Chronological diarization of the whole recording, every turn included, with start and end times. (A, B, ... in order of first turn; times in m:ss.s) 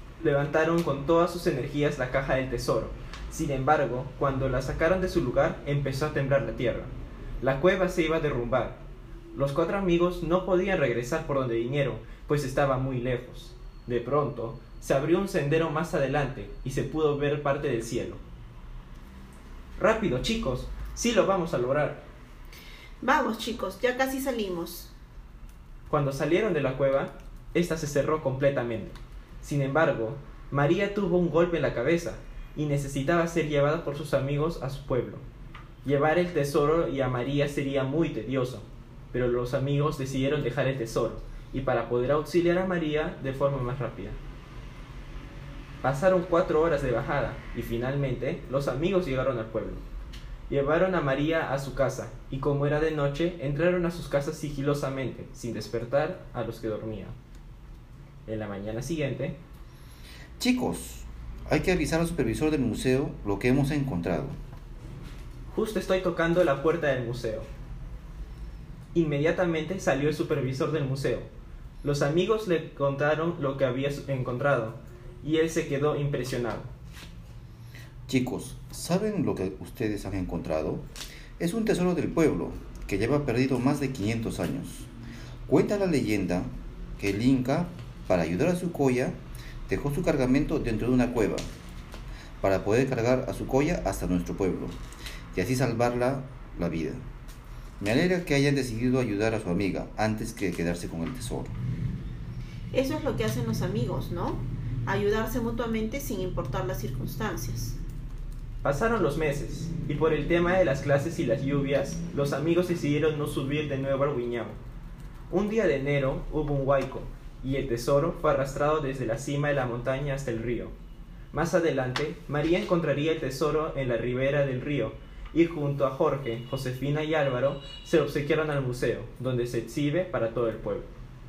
0:00.2-0:18.2 A
0:19.8-0:22.1 A
0:23.0-0:24.9 B
0:25.9-0:35.2 A
0:35.8-0:44.2 A
0:45.8-0:49.8 A
0:50.5-0:57.2 A
0:58.3-0:59.4 A
1:00.4-1:04.4 C
1:05.5-1:07.5 A
1:08.9-1:11.3 A
1:11.8-1:16.7 A
1:18.1-1:20.8 C
1:21.4-1:24.9 C
1:25.5-1:31.5 C
1:32.4-1:34.8 C
1:35.3-1:37.0 C
1:37.8-1:41.6 C
1:42.7-1:47.8 B
1:48.6-1:54.6 A
1:55.3-2:00.8 A
2:01.3-2:10.9 A